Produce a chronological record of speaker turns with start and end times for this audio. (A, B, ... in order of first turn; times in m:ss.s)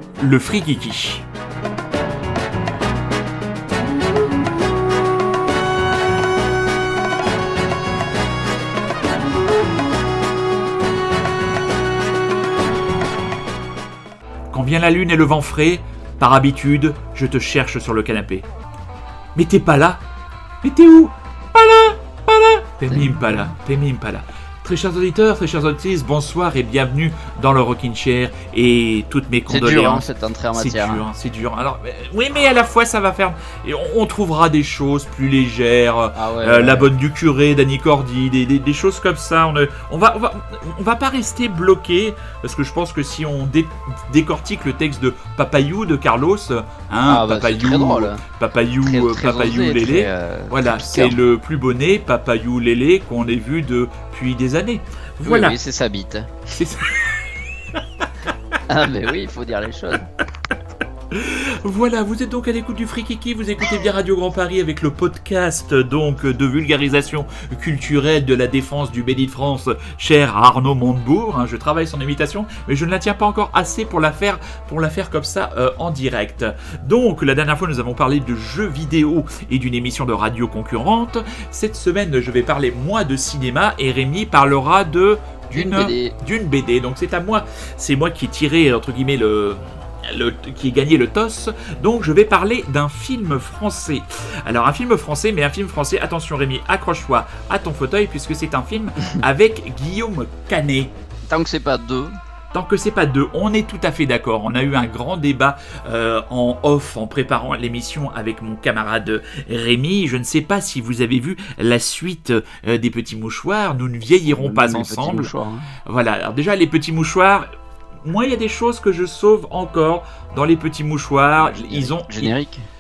0:00.2-0:01.2 A
0:14.5-0:18.4 A
0:19.4-0:20.0 A
0:20.6-0:55.6 A
0:22.9-0:23.2 B
0:29.5-0:31.0 B
0:36.2-0:36.9 B
0:47.1-0:48.2 B
0:48.8-0:51.2 B
0:55.2-0:56.4 B
0:56.5-0:57.2 A
0:58.7-1:00.1 B
1:01.1-1:40.9 A
1:25.5-1:26.1 B
1:41.3-1:42.2 B
1:42.5-1:55.3 A
1:54.3-1:55.7 B
1:55.9-1:57.5 A
1:58.0-2:02.3 A
2:01.4-2:02.7 B